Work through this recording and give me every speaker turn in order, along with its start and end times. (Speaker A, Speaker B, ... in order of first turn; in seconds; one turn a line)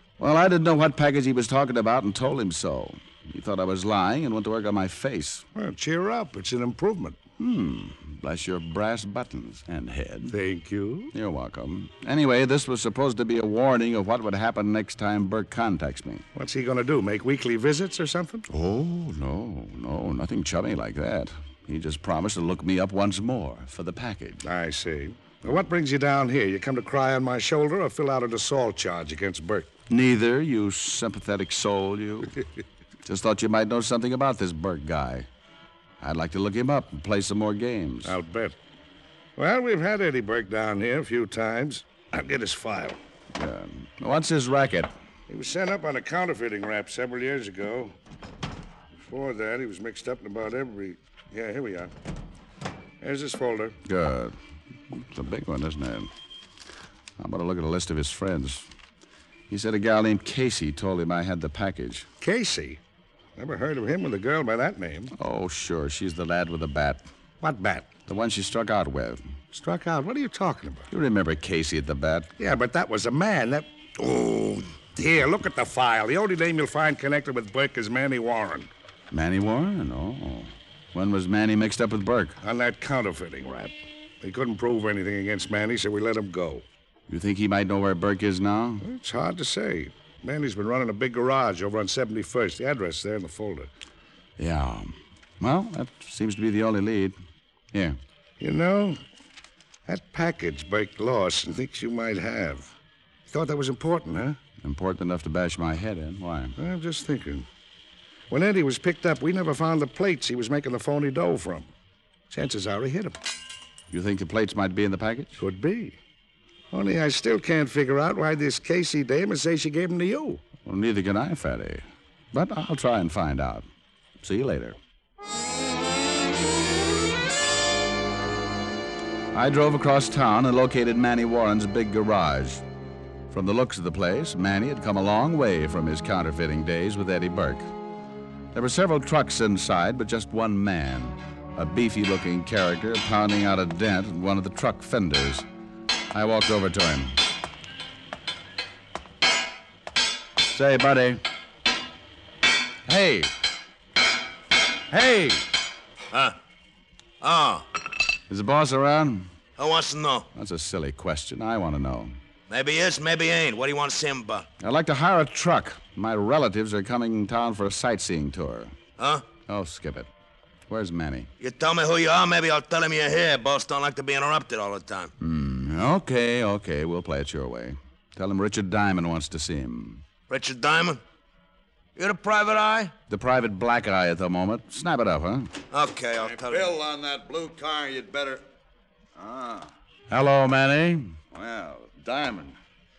Speaker A: 0.2-5.4
Speaker B: 5.5-7.2
Speaker A: 7.4-10.3
Speaker B: 10.3-11.1
Speaker A: 11.1-16.2
Speaker B: 16.3-18.4
Speaker A: 18.5-24.4
Speaker B: 24.4-29.7
Speaker A: 29.9-32.4
Speaker A: 33.0-35.3
Speaker A: 36.0-38.2
Speaker B: 38.0-38.6
Speaker B: 39.4-43.0
Speaker A: 43.3-44.9
Speaker B: 45.3-47.9
Speaker B: 49.0-51.9
Speaker B: 53.0-53.8
Speaker A: 53.8-54.4
Speaker A: 54.9-56.1
Speaker A: 57.2-58.7
Speaker A: 59.5-62.1
Speaker B: 62.2-62.8
Speaker B: 63.4-65.1
Speaker A: 65.2-67.0
Speaker B: 67.4-67.9
Speaker A: 68.1-69.2
Speaker B: 69.5-70.9
Speaker A: 70.9-72.3
Speaker B: 72.4-78.7
Speaker A: 79.1-82.4
Speaker B: 82.4-86.6
Speaker A: 87.1-88.8
Speaker B: 88.8-93.7
Speaker A: 94.4-97.2
Speaker B: 98.4-99.0
Speaker B: 99.9-102.7
Speaker B: 103.3-104.4
Speaker A: 104.6-106.5
Speaker B: 106.6-107.5
Speaker B: 108.3-111.7
Speaker B: 112.3-113.2
Speaker A: 113.9-115.4
Speaker B: 115.4-116.0
Speaker B: 116.7-120.4
Speaker A: 120.6-123.7
Speaker A: 124.2-124.8
Speaker A: 129.3-132.6
Speaker A: 133.3-137.7
Speaker A: 138.5-145.4
Speaker A: 146.1-147.2
Speaker A: 150.5-151.2
Speaker A: 152.9-153.3
Speaker A: 154.9-155.4
Speaker C: 157.2-157.7
Speaker A: 158.3-159.3
Speaker C: 159.6-160.3
Speaker A: 160.3-162.2
Speaker C: 162.5-164.5
Speaker A: 164.6-168.8
Speaker C: 169.0-169.3
Speaker A: 169.4-170.1
Speaker A: 170.7-171.3
Speaker C: 171.4-175.1
Speaker A: 175.2-180.0
Speaker C: 180.3-181.0
Speaker C: 181.9-182.9
Speaker A: 183.1-185.5
Speaker C: 185.7-186.7
Speaker D: 186.2-188.4
Speaker D: 189.2-189.7
Speaker A: 190.1-191.2
Speaker D: 191.3-192.6